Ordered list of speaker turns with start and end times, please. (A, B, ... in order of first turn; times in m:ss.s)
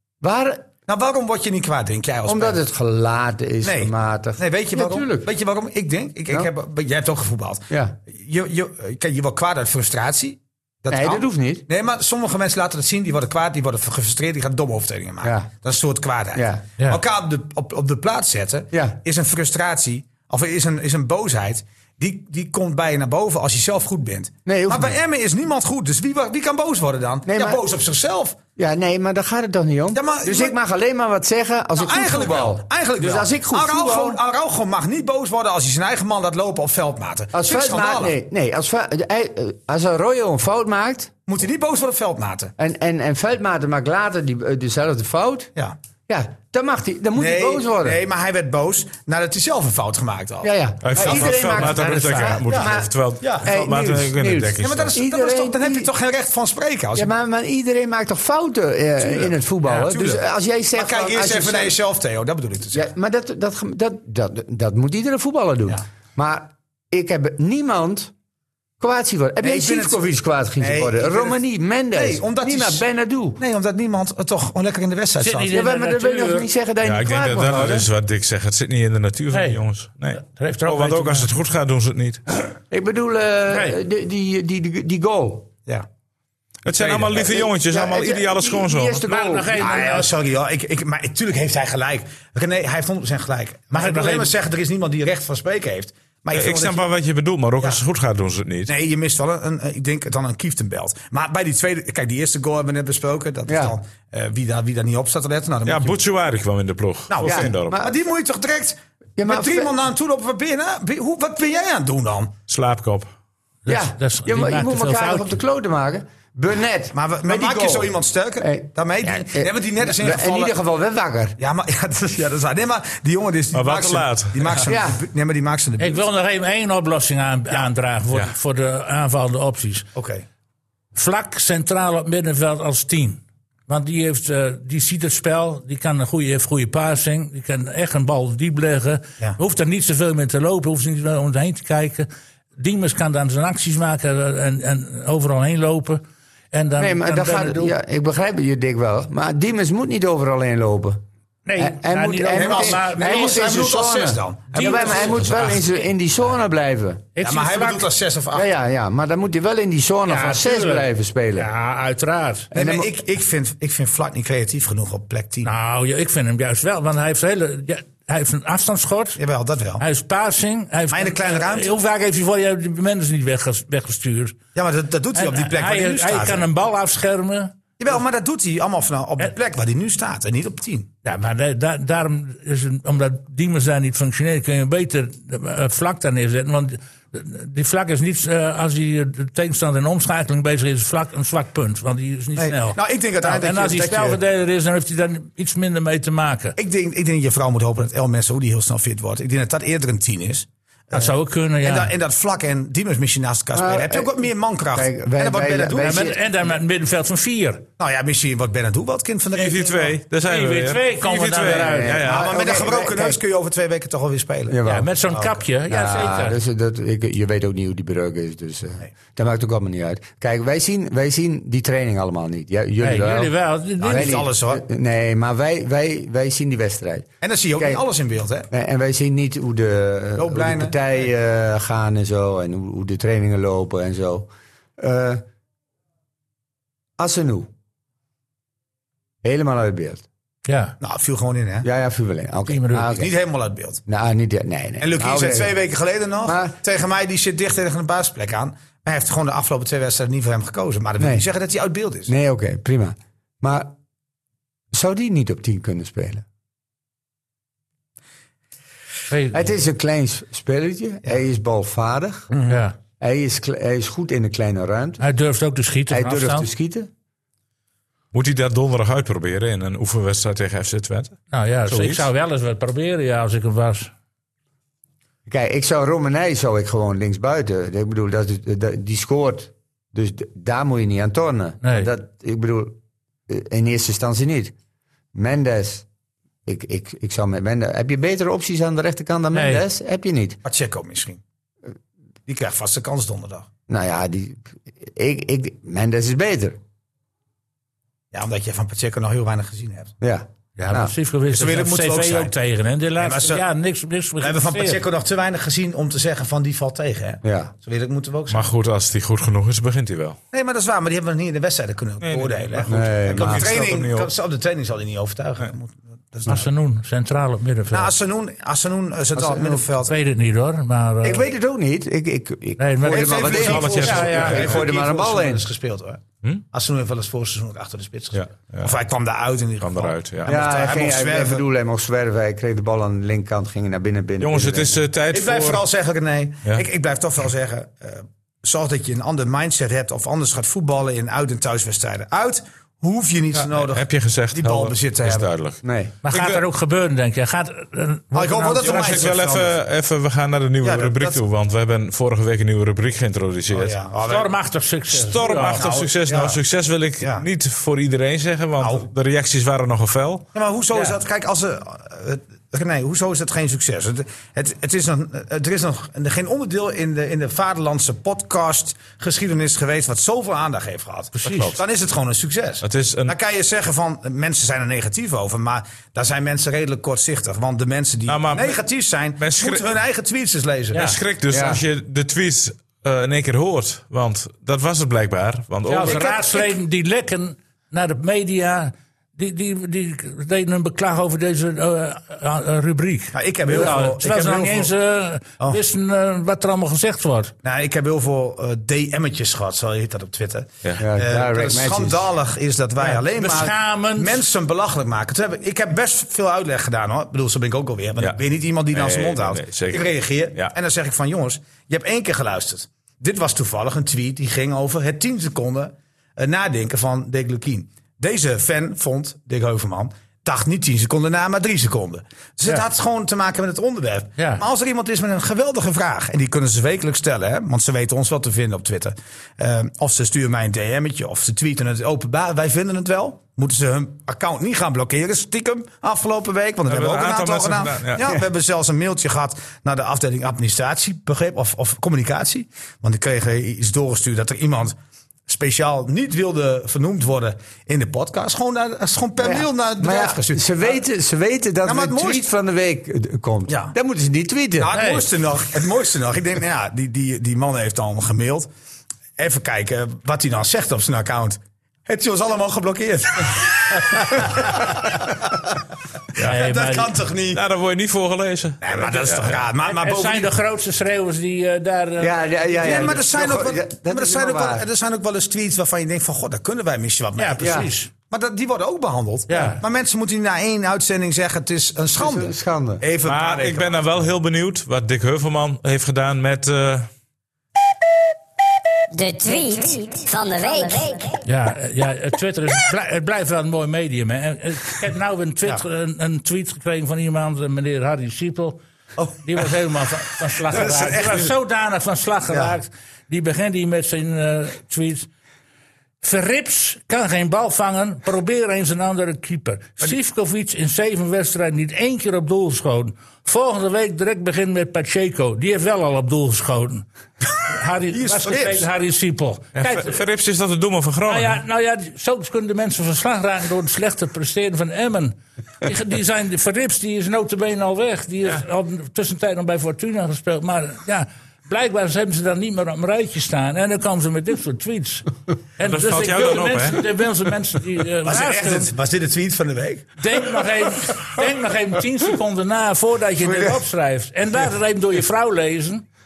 0:00.2-0:00.7 A
0:00.9-0:02.6 B
0:02.2-0:05.3 A
0:03.6-0:28.4 B
0:07.7-0:08.0 A
0:10.9-0:11.6 A
0:15.2-0:15.5 A
0:16.3-0:16.7 A
0:18.7-0:19.0 A
0:24.4-0:25.0 A
0:27.2-0:27.6 A
0:28.6-0:34.2 A
0:29.9-0:30.6 B
0:31.8-0:38.1 B
0:37.3-0:41.1 A
0:41.3-0:42.5 B
0:42.6-0:45.5 A
0:46.1-0:48.0 A
0:47.1-0:51.6 B
0:50.4-0:55.9 A
0:50.8-0:55.0 C
0:52.5-0:53.5 B
0:54.6-0:57.1 B
0:56.9-1:01.8 A
0:59.0-1:00.2 B
1:00.8-1:02.8 B
1:02.7-1:08.1 A
1:08.8-1:13.4 A
1:09.4-1:10.0 B
1:10.6-1:11.4 B
1:11.9-1:12.8 B
1:13.4-1:15.5 B
1:15.2-1:16.5 D
1:15.5-1:17.9 A
1:16.8-1:22.2 C
1:19.3-1:19.6 D
1:20.1-1:21.3 D
1:22.7-1:25.5 A
1:23.5-1:23.8 D
1:26.6-1:29.0 C
1:26.8-1:27.2 B
1:27.1-1:29.8 A
1:29.1-1:30.1 D
1:29.5-1:36.8 B
1:33.7-1:34.3 D
1:36.3-1:38.7 C
1:38.7-1:46.0 B
1:43.4-1:43.8 A
1:45.6-1:47.8 C
1:47.1-1:52.3 B
1:47.2-1:48.0 A
1:49.2-1:49.7 A
1:52.5-1:53.1 C
1:53.6-1:55.3 D
1:53.7-2:01.4 A
1:56.9-2:00.5 B
2:01.4-2:06.0 B
2:03.5-2:04.7 C
2:04.7-2:05.0 A
2:05.8-2:09.9 D
2:09.9-2:10.2 B
2:10.9-2:26.0 D
2:26.5-2:27.7 D
2:26.8-2:31.0 A
2:31.4-2:33.6 D
2:31.6-2:37.1 A
2:32.3-2:35.4 B
2:34.5-2:35.6 D
2:37.2-2:37.9 D
2:37.2-2:38.5 B
2:38.3-2:41.5 A
2:40.1-2:42.5 D
2:42.5-2:42.9 A
2:42.5-2:45.5 B
2:45.4-2:49.2 D
2:49.2-2:49.8 B
2:49.8-2:54.4 D
2:50.9-2:51.7 B
2:54.5-2:56.4 B
2:55.1-2:57.5 D
2:57.8-3:00.9 B
3:01.0-3:16.6 D
3:12.4-3:14.2 B
3:16.6-3:26.0 B
3:20.9-3:21.9 D
3:23.5-3:26.2 A
3:25.8-3:27.6 D
3:27.8-3:29.9 B
3:29.3-3:32.4 C
3:30.2-3:32.0 D
3:31.5-3:33.2 A
3:32.0-3:34.6 B
3:34.5-3:34.9 A
3:34.6-3:36.4 D
3:35.1-3:35.4 B
3:35.7-3:47.8 A
3:42.8-3:44.2 D
3:43.8-3:44.6 B
3:47.2-3:48.5 B
3:48.5-3:55.2 A
3:50.2-3:50.8 B
3:57.0-3:57.5 A
3:59.2-4:00.0 A
4:00.4-4:00.7 D
4:00.8-4:01.7 B
4:01.6-4:03.1 A
4:02.5-4:02.9 D
4:02.9-4:03.8 B
4:03.8-4:05.6 A
4:04.8-4:12.1 B
4:06.2-4:06.6 A
4:11.0-4:11.3 A
4:12.1-4:13.7 A
4:14.7-4:16.2 A
4:19.1-4:19.5 D
4:19.3-4:22.3 A
4:22.3-4:22.6 B
4:22.5-4:22.8 D
4:23.0-4:25.0 A
4:25.0-4:26.5 D
4:25.9-4:26.9 A
4:28.1-4:32.0 C
4:31.3-4:33.9 D
4:35.2-4:44.5 A
4:41.6-4:41.9 D
4:45.1-4:45.8 A
4:46.4-4:50.4 A
4:49.3-4:49.6 D
4:50.4-4:51.2 B
4:52.3-4:53.5 B
4:53.7-4:56.6 A
4:58.1-4:59.9 B
5:00.0-5:00.9 A
5:00.6-5:04.8 D
5:01.3-5:02.3 B
5:03.0-5:03.4 B
5:04.2-5:08.5 B
5:07.2-5:07.5 A
5:08.3-5:10.2 C
5:10.3-5:16.5 B
5:12.0-5:14.1 C
5:12.7-5:13.5 A
5:16.3-5:17.9 D
5:17.7-5:19.9 B
5:19.1-5:19.7 A
5:19.8-5:21.3 D
5:21.0-5:25.5 A
5:22.6-5:24.4 D
5:22.8-5:31.4 B
5:23.3-5:24.6 C
5:28.1-5:28.7 C
5:29.6-5:30.3 C
5:30.2-5:34.8 A
5:34.2-5:35.6 C
5:35.1-5:45.3 B
5:43.3-5:46.4 C
5:45.6-5:45.9 A
5:46.0-5:49.0 D
5:48.1-5:49.5 B
5:48.6-5:53.8 C
5:50.6-5:51.2 B
5:53.5-5:54.3 B
5:54.0-5:55.7 D
5:54.9-6:00.2 C
5:55.5-5:56.4 B
5:57.0-5:57.2 B
5:58.6-5:58.9 B
6:00.3-6:20.9 B
6:00.7-6:01.0 D
6:11.1-6:11.5 D
6:11.2-6:11.6 C
6:12.6-6:13.1 C
6:18.1-6:18.6 C
6:19.2-6:19.6 C
6:20.7-6:21.0 D
6:20.7-6:26.1 C
6:21.3-6:21.6 A
6:25.6-6:37.3 D
6:25.8-6:26.5 B
6:33.1-6:34.7 B
6:37.4-7:30.8 B
6:40.8-6:42.1 A
6:42.8-6:44.2 D
6:48.7-6:50.5 C
7:04.2-7:04.4 D
7:16.7-7:18.2 C
7:29.2-7:34.7 A
7:31.6-7:32.2 B
7:33.5-7:33.7 B
7:34.6-7:38.5 B
7:34.7-7:35.0 D
7:39.2-7:45.3 B
7:46.2-7:46.9 D
7:46.2-7:47.4 B
7:47.3-7:49.4 C
7:48.6-7:50.3 B
7:49.6-7:53.0 D
7:52.0-7:54.6 A
7:52.6-8:04.1 B
7:57.2-7:57.9 D
7:57.4-7:57.7 A
7:59.3-7:59.6 D
8:02.0-8:02.8 A
8:03.0-8:06.9 C
8:08.9-8:11.2 E
8:11.2-8:18.6 D
8:19.0-8:19.5 B
8:19.2-8:25.1 D
8:20.4-8:21.3 B
8:22.3-8:22.5 B
8:26.0-8:36.8 D
8:37.5-8:40.0 D
8:37.9-8:38.6 B
8:39.6-8:41.4 C
8:41.1-8:58.7 D
8:55.6-8:56.8 C
8:58.0-9:00.0 B
9:00.0-9:05.8 D
9:03.2-9:03.5 B